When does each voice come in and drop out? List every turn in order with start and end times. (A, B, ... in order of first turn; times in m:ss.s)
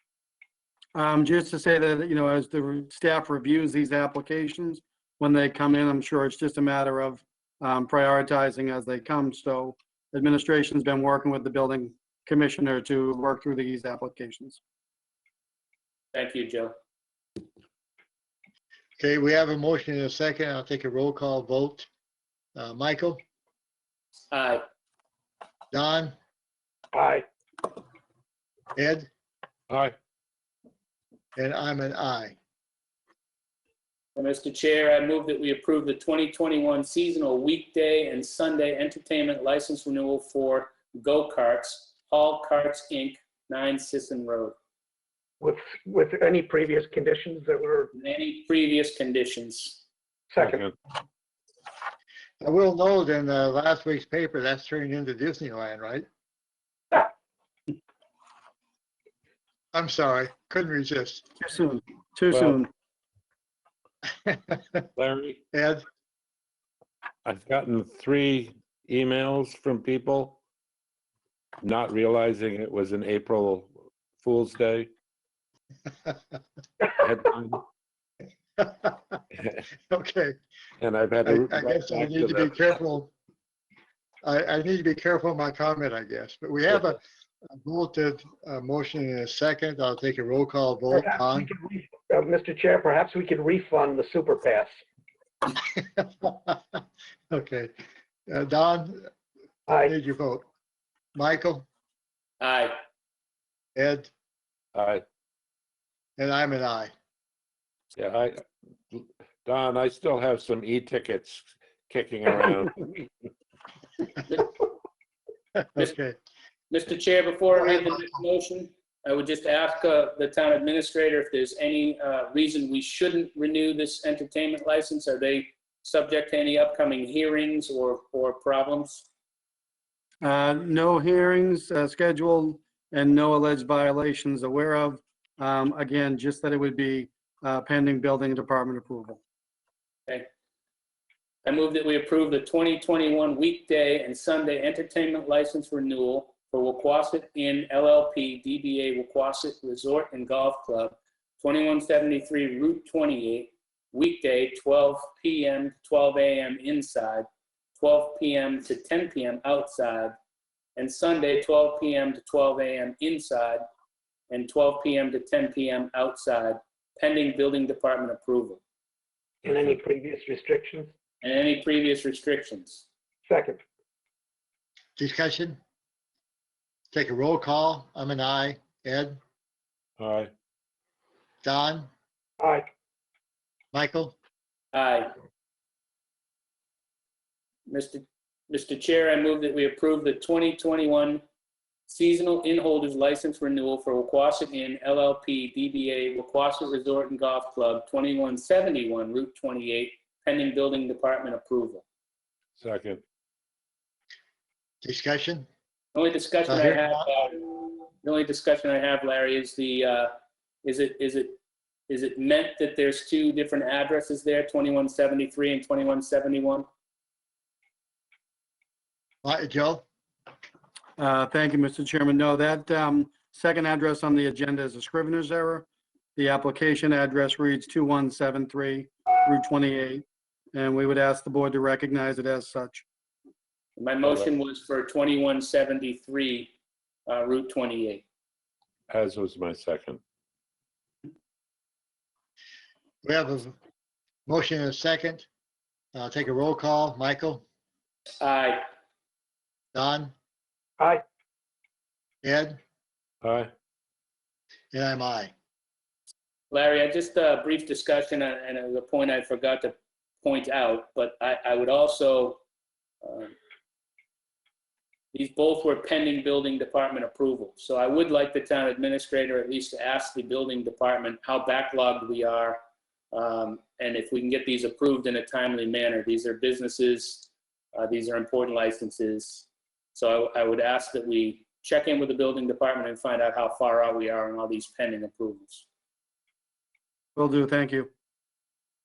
0:00.9-0:14.6 A
0:16.1-0:16.7 B
0:19.0-0:21.9 C
0:22.6-0:23.2 C
0:24.3-0:24.6 B
0:25.7-0:26.1 C
0:26.9-0:27.2 D
0:28.8-0:29.1 C
0:29.7-0:29.9 E
0:31.4-0:32.4 C
0:34.2-0:44.6 B
0:45.4-0:47.9 D
0:47.9-0:49.8 B
0:50.3-0:50.7 D
0:50.4-0:50.7 E
0:52.4-0:56.0 C
0:59.7-1:01.2 C
1:01.4-1:02.7 A
1:02.3-1:02.6 E
1:04.2-1:04.8 C
1:05.0-1:05.4 E
1:05.5-1:05.8 C
1:07.2-1:10.4 E
1:11.6-1:14.9 E
1:16.9-1:17.6 E
1:18.6-1:19.2 C
1:19.9-1:20.4 C
1:20.8-1:22.6 E
1:21.2-1:23.1 C
1:24.2-1:27.0 C
1:27.5-1:31.5 C
1:30.9-1:34.7 D
1:35.5-1:37.7 C
1:38.3-1:39.1 C
1:39.7-1:39.9 D
1:39.8-1:40.4 C
1:41.2-1:41.7 C
1:42.4-1:42.8 B
1:43.8-1:44.1 C
1:44.7-1:45.0 E
1:46.2-1:46.9 C
1:48.0-1:52.8 E
1:55.6-1:56.2 C
1:56.7-2:09.1 B
1:57.6-1:58.2 C
2:10.2-2:19.2 A
2:21.4-2:37.3 B
2:37.8-2:40.2 B
2:40.8-2:43.6 B
2:44.3-2:48.6 B
2:49.4-2:50.9 D
2:51.2-2:52.9 B
2:53.3-2:53.6 D
2:55.0-2:55.6 C
2:56.9-2:59.2 C
3:00.0-3:00.3 E
3:01.4-3:01.9 C
3:02.4-3:02.7 D
3:03.7-3:04.2 C
3:04.7-3:05.1 B
3:07.7-3:11.2 B
3:11.9-3:21.8 B
3:22.6-3:23.0 E
3:24.8-3:25.5 C
3:25.9-3:30.1 B
3:26.5-3:27.1 C
3:30.6-3:31.4 B
3:31.9-3:36.7 B
3:39.2-3:39.8 C
3:41.0-3:52.8 A
3:53.8-3:56.5 B
3:57.1-3:58.0 B
3:58.9-4:00.0 E
4:03.0-4:03.6 C
4:04.3-4:05.3 C
4:05.9-4:07.4 C
4:08.2-4:08.6 B
4:09.7-4:10.1 C
4:12.2-4:12.6 C
4:13.2-4:13.5 E
4:14.7-4:15.3 C
4:16.5-4:22.4 B
4:23.0-4:23.3 B
4:25.1-4:32.6 B
4:33.1-4:45.6 B
4:47.2-4:47.9 A